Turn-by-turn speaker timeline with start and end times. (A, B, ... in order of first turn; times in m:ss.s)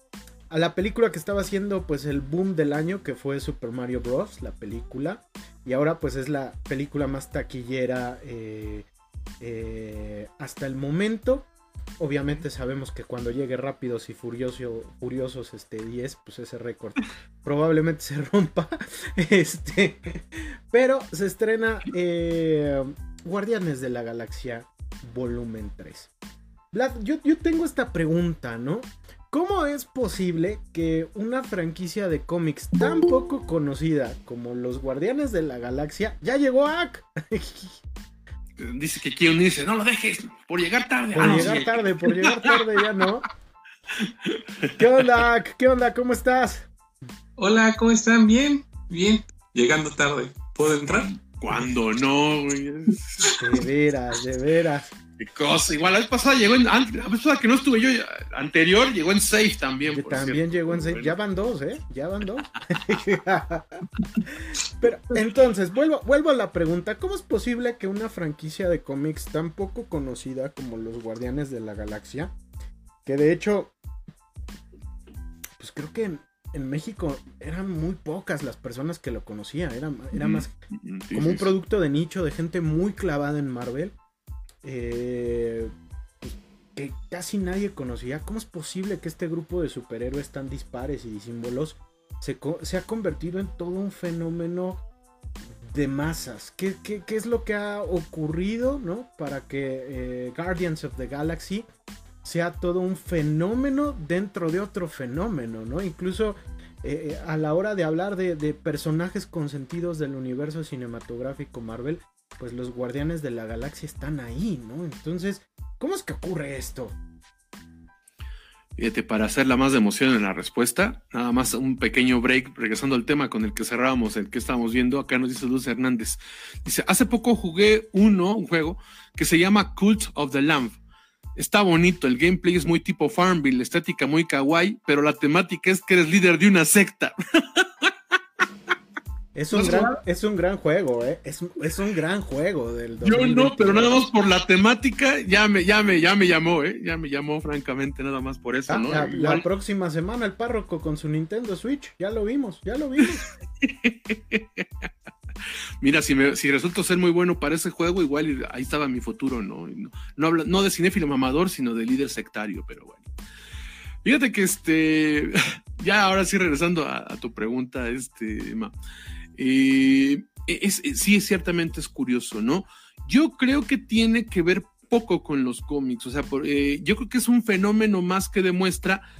0:00.5-0:08.9 A
0:09.4-0:26.1 A
0:26.7-0:37.8 A
0:38.6-0:42.6 B
0:41.1-0:43.2 A
0:41.2-0:41.6 C
0:44.0-0:44.7 B
0:44.7-0:46.7 A
0:47.4-0:51.1 C
0:50.9-0:53.3 B
0:53.4-0:54.9 A
0:55.2-1:01.2 B
0:59.9-1:12.3 A
1:13.0-1:13.7 A
1:15.6-1:20.5 A
1:20.1-1:21.5 B
1:21.1-1:23.9 A
1:24.6-1:34.8 A
1:35.7-1:41.6 A
1:42.2-1:56.9 A
1:58.8-2:10.8 B
2:11.4-2:17.9 B
2:19.3-2:24.0 A
2:19.5-2:20.0 B
2:23.0-2:29.4 B
2:28.7-2:33.2 A
2:33.6-2:34.9 B
2:35.8-2:43.0 B
2:44.0-2:48.7 B
2:49.4-2:59.0 B